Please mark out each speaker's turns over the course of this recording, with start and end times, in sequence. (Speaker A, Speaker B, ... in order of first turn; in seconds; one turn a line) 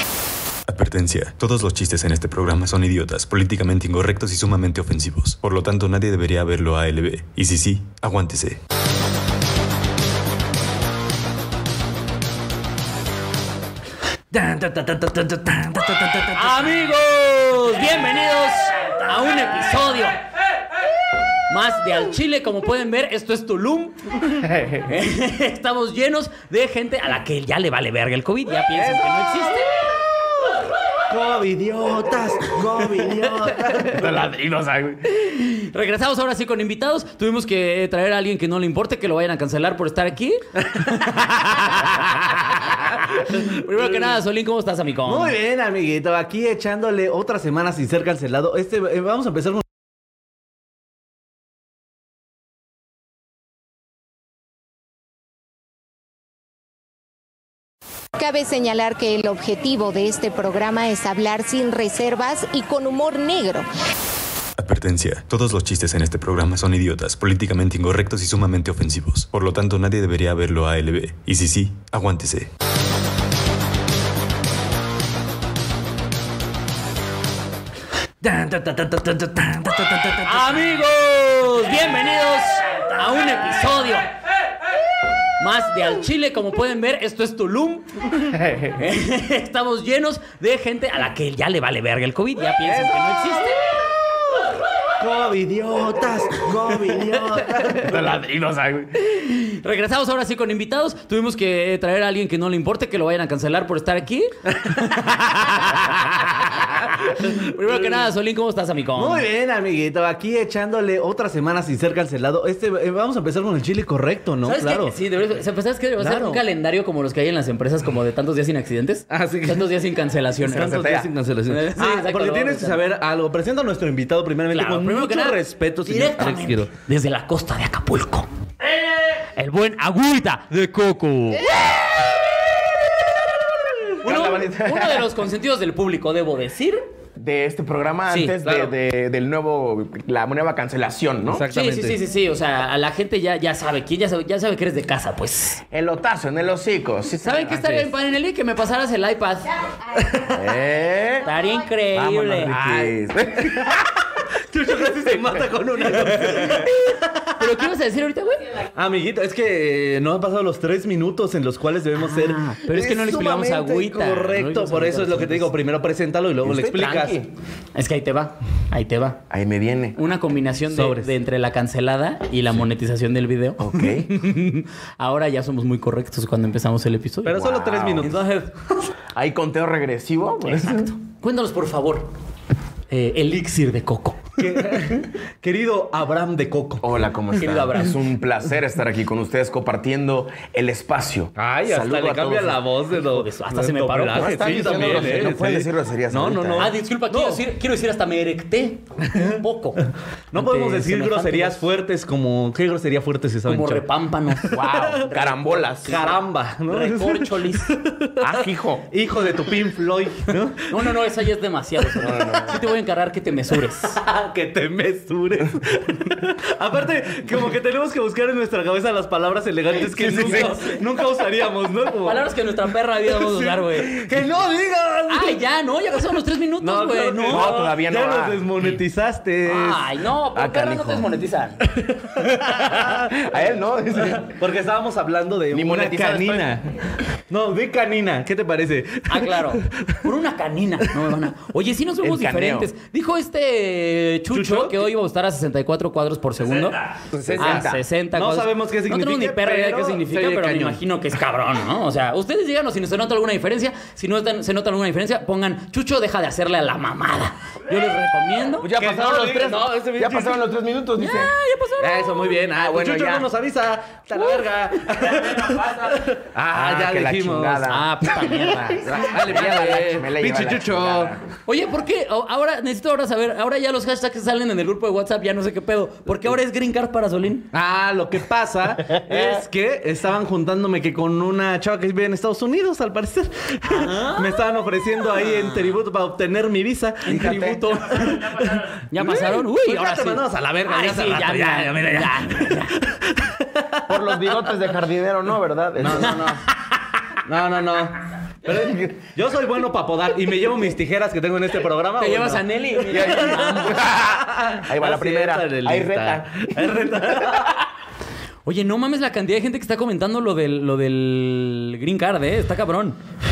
Speaker A: 0.7-8.6
Speaker B: 14.3-16.7
Speaker C: 16.3-20.2
Speaker C: 21.5-29.7
Speaker B: 28.7-29.7
Speaker B: 31.1-34.2
Speaker D: 33.8-35.0
Speaker C: 35.0-45.3
Speaker B: 40.7-41.7
Speaker B: 43.1-44.2
Speaker B: 45.1-49.6
Speaker E: 58.2-63.7
Speaker A: 64.6-72.5
Speaker B: 78.2-80.6
Speaker C: 80.2-84.1
Speaker C: 85.4-93.6
Speaker B: 92.6-93.6
Speaker B: 95.0-98.1
Speaker D: 97.7-98.9
Speaker C: 98.9-109.2
Speaker B: 104.5-105.9
Speaker B: 106.5-108.1
Speaker B: 109.0-115.0
Speaker C: 114.4-120.7
Speaker B: 116.0-116.4
Speaker B: 119.1-119.7
Speaker D: 120.4-121.1
Speaker B: 120.5-126.7
Speaker C: 121.5-122.8
Speaker C: 124.5-128.3
Speaker C: 129.2-131.5
Speaker C: 134.0-136.8
Speaker D: 134.0-135.1
Speaker D: 137.2-141.4
Speaker C: 138.1-138.3
Speaker B: 138.4-138.7
Speaker B: 141.2-142.0
Speaker C: 141.5-145.6
Speaker D: 145.7-147.8
Speaker C: 147.2-149.6
Speaker B: 149.9-150.4
Speaker D: 150.3-151.3
Speaker C: 151.2-152.5
Speaker D: 151.9-153.8
Speaker B: 152.4-153.9
Speaker B: 154.5-157.4
Speaker C: 157.4-158.6
Speaker B: 158.7-167.2
Speaker C: 161.9-165.5
Speaker D: 166.4-167.3
Speaker C: 167.7-169.2
Speaker D: 169.3-170.0
Speaker C: 169.9-178.5
Speaker B: 170.7-171.1
Speaker D: 173.6-174.1
Speaker B: 177.2-178.3
Speaker D: 177.3-178.1
Speaker D: 179.1-180.9
Speaker C: 180.4-182.1
Speaker C: 182.9-184.6
Speaker B: 184.4-186.8
Speaker D: 186.8-192.6
Speaker C: 187.3-188.0
Speaker B: 191.3-197.4
Speaker C: 192.9-195.2
Speaker D: 194.1-196.7
Speaker C: 196.5-201.6
Speaker B: 199.1-199.4
Speaker B: 200.3-205.2
Speaker C: 203.4-205.3
Speaker D: 205.1-206.1
Speaker B: 205.8-211.0
Speaker C: 205.8-207.7
Speaker D: 208.2-208.9
Speaker C: 210.7-214.0
Speaker D: 212.0-212.7
Speaker B: 213.9-222.3
Speaker D: 219.9-220.5
Speaker C: 220.0-220.8
Speaker C: 222.0-224.1
Speaker B: 223.0-225.4
Speaker C: 225.1-227.6
Speaker B: 226.6-230.8
Speaker D: 227.3-228.5
Speaker C: 229.4-231.6
Speaker D: 230.7-231.0
Speaker B: 231.6-233.4
Speaker D: 233.1-234.3
Speaker B: 233.9-236.7
Speaker D: 235.5-236.6
Speaker B: 237.3-239.9
Speaker C: 239.1-246.8
Speaker D: 242.0-242.7
Speaker B: 244.3-244.9
Speaker D: 247.1-247.8
Speaker B: 247.1-250.8
Speaker C: 247.4-258.7
Speaker D: 258.6-261.3
Speaker B: 258.7-260.4
Speaker C: 261.0-262.4
Speaker B: 261.8-267.7
Speaker D: 262.5-263.3
Speaker C: 264.2-264.4
Speaker D: 266.5-271.2
Speaker C: 267.7-268.9
Speaker B: 268.8-271.1
Speaker C: 271.5-277.5
Speaker B: 277.5-294.5
Speaker D: 278.9-279.4
Speaker C: 283.6-284.4
Speaker C: 285.2-285.8
Speaker C: 287.0-292.8
Speaker D: 287.1-287.6
Speaker D: 293.9-296.2
Speaker B: 295.8-296.5
Speaker C: 296.0-296.7
Speaker B: 297.2-307.6
Speaker C: 302.0-303.9
Speaker D: 302.9-306.7
Speaker C: 308.4-313.0